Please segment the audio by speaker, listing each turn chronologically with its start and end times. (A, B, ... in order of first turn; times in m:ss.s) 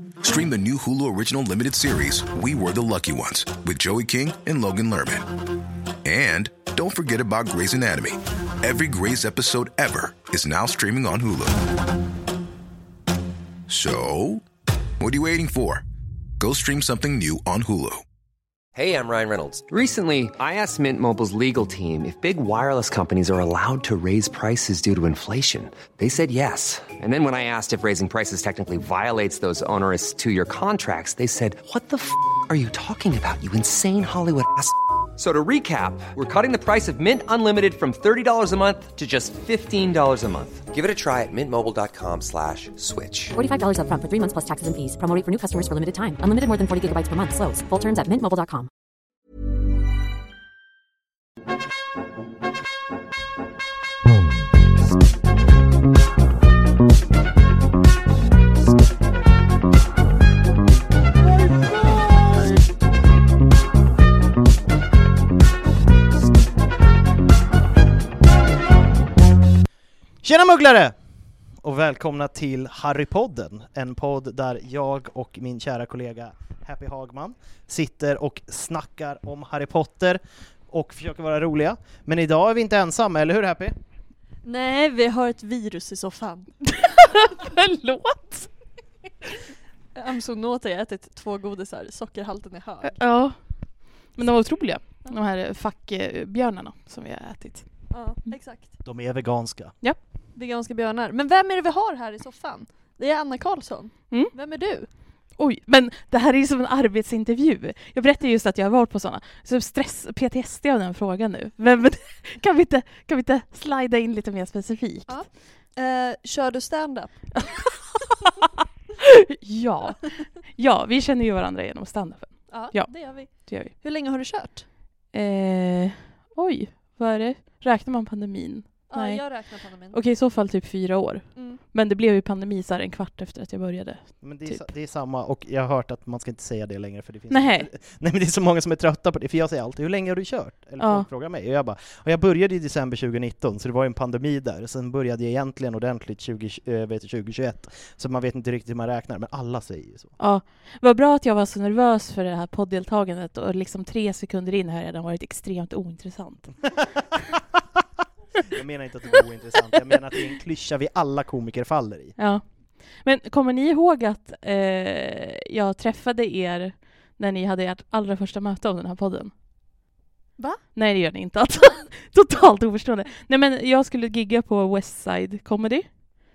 0:00.2-0:05.3 A
0:06.0-0:11.7 A
0:13.7-0:14.4 A
0:15.0-0:15.8 A
0:16.4-0:18.0 A
0:18.8-0:43.4 B
0:43.4-0:48.7 C
1:10.2-1:11.0 D
1:11.6-1:23.7 D
1:24.4-1:26.5 E
1:26.7-1:28.5 F
1:30.0-1:33.0 E
1:32.8-1:33.4 F
1:34.1-1:37.7 F
1:37.9-1:38.7 E
1:38.8-1:39.7 D
1:40.4-1:44.9 E
1:45.4-1:55.2 F
1:55.1-1:57.3 E
1:57.4-1:58.5 F
1:59.0-2:03.7 F
2:02.5-2:04.7 E
2:05.1-2:09.2 F
2:08.9-2:10.0 E
2:09.9-2:14.7 F
2:11.4-2:11.6 E
2:14.2-2:30.1 D
2:17.3-2:17.7 F
2:20.8-2:21.1 F
2:30.2-2:36.5 F
2:36.8-2:37.4 D
2:38.5-2:42.2 D
2:42.2-2:42.4 F
2:43.0-2:49.3 F
2:50.7-2:56.0 F